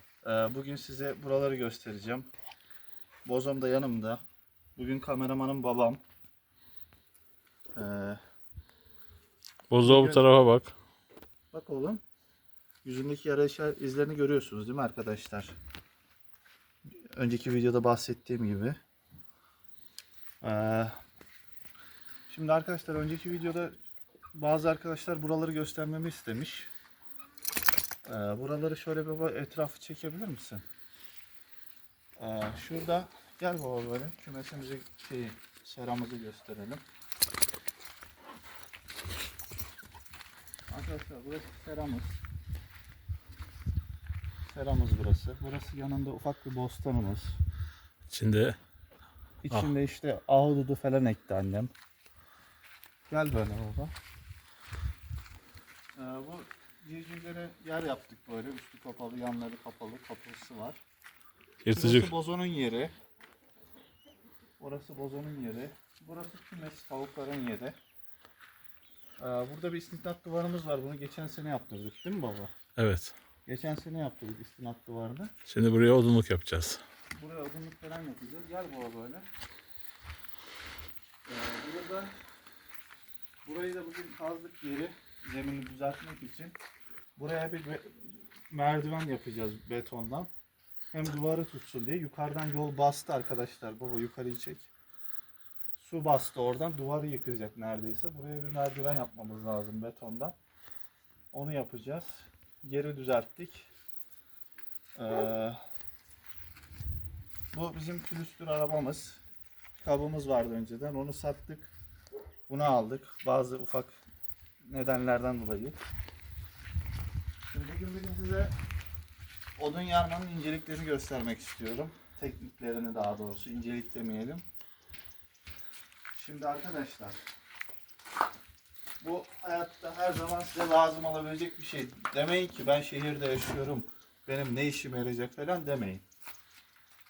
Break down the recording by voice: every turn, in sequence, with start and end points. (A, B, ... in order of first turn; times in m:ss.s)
0:00.2-0:02.3 A
0:03.2-0:04.2 A
0:04.8-0:06.0 A
0:07.8-0:08.2 A
0:09.7-0:10.7 B
0:09.8-0:10.3 A
0:11.5-0:12.0 A
0:12.8-0:15.5 A
0:17.1-0:18.8 A
0:20.4-0:20.9 A
0:22.3-0:23.7 A
0:24.3-0:26.7 A
0:28.0-0:30.6 A
0:32.2-0:36.8 A
0:40.7-0:42.2 A
0:44.5-0:47.4 A
0:48.1-0:48.6 B
0:49.4-0:51.7 A
0:53.1-0:53.9 A
0:55.9-1:00.8 A
1:01.6-1:02.1 B
1:01.7-1:02.9 A
1:04.6-1:07.7 A
1:09.2-1:12.5 A
1:12.8-1:13.1 B
1:13.4-1:15.3 A
1:15.5-1:16.8 B
1:17.2-1:19.3 A
1:21.2-1:22.1 A
1:23.4-1:26.6 A
1:27.2-1:30.3 A
1:30.9-1:34.7 A
1:35.8-1:40.4 A
1:41.3-1:43.7 A
1:45.0-1:45.6 A
1:47.5-1:49.2 A
1:49.7-1:51.7 A
1:52.5-1:54.0 A
1:54.7-1:55.8 A
1:57.5-1:58.5 A
1:59.6-2:04.4 A
2:06.1-2:07.2 A
2:09.0-2:16.0 A